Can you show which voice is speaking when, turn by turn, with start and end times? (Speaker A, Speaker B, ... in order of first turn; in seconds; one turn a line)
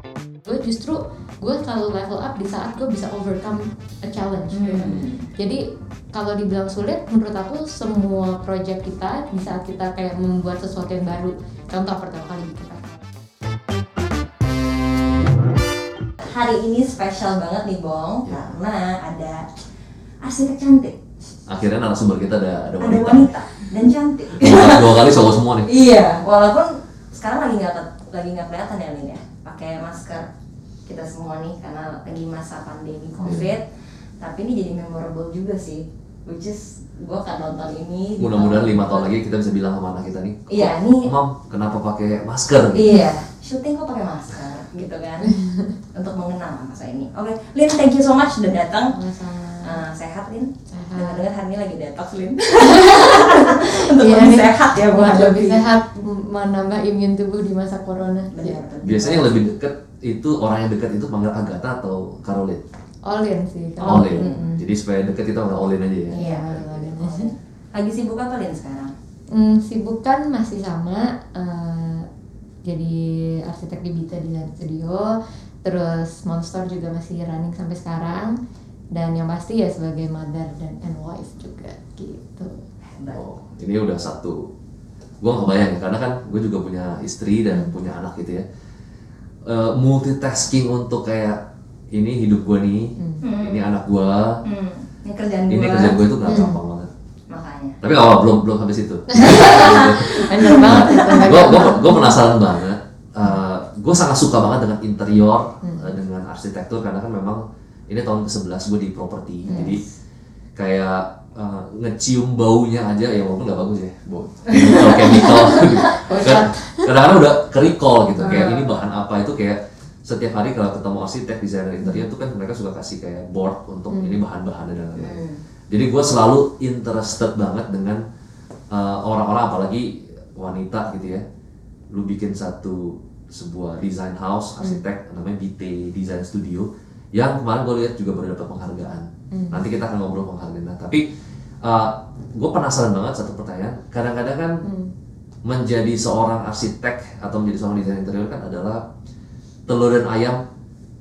Speaker A: 0.5-5.6
Speaker B: 4.5-5.3
Speaker C: 4.8-5.0
Speaker A: 6.1-13.0
Speaker B: 16.2-19.4
Speaker C: 18.2-18.5
Speaker B: 20.2-21.0
Speaker C: 21.5-23.3
Speaker B: 22.8-25.1
Speaker C: 24.4-25.7
Speaker B: 25.6-30.3
Speaker B: 30.9-33.6
Speaker A: 33.2-33.5
Speaker B: 34.2-39.1
Speaker C: 38.2-42.8
Speaker B: 40.5-41.1
Speaker B: 42.7-45.3
Speaker A: 45.3-45.7
Speaker B: 45.9-49.0
Speaker A: 48.9-49.8
Speaker B: 49.6-55.6
Speaker A: 50.7-51.2
Speaker A: 52.6-58.6
Speaker B: 58.3-59.5
Speaker C: 58.8-62.6
Speaker A: 63.0-64.6
Speaker C: 63.8-66.2
Speaker B: 63.9-64.4
Speaker B: 66.1-68.9
Speaker A: 66.2-67.3
Speaker A: 69.3-72.1
Speaker A: 72.7-78.3
Speaker A: 78.9-82.6
Speaker B: 82.8-83.2
Speaker C: 83.1-84.5
Speaker C: 85.2-88.4
Speaker C: 89.4-91.4
Speaker C: 91.9-94.4
Speaker A: 93.0-93.2
Speaker B: 93.2-93.7
Speaker B: 94.4-96.4
Speaker C: 95.5-96.9
Speaker A: 96.3-96.6
Speaker B: 97.3-97.8
Speaker C: 97.8-109.8
Speaker A: 99.1-102.2
Speaker B: 99.2-101.8
Speaker A: 105.6-105.9
Speaker A: 109.5-109.8
Speaker C: 110.6-128.0
Speaker A: 114.8-116.9
Speaker B: 118.2-118.7
Speaker A: 123.9-124.2
Speaker B: 125.0-125.4
Speaker C: 128.7-131.2
Speaker C: 131.9-141.0
Speaker A: 139.3-139.6
Speaker C: 141.6-144.6
Speaker A: 144.6-144.9
Speaker C: 145.4-148.8
Speaker C: 149.7-150.4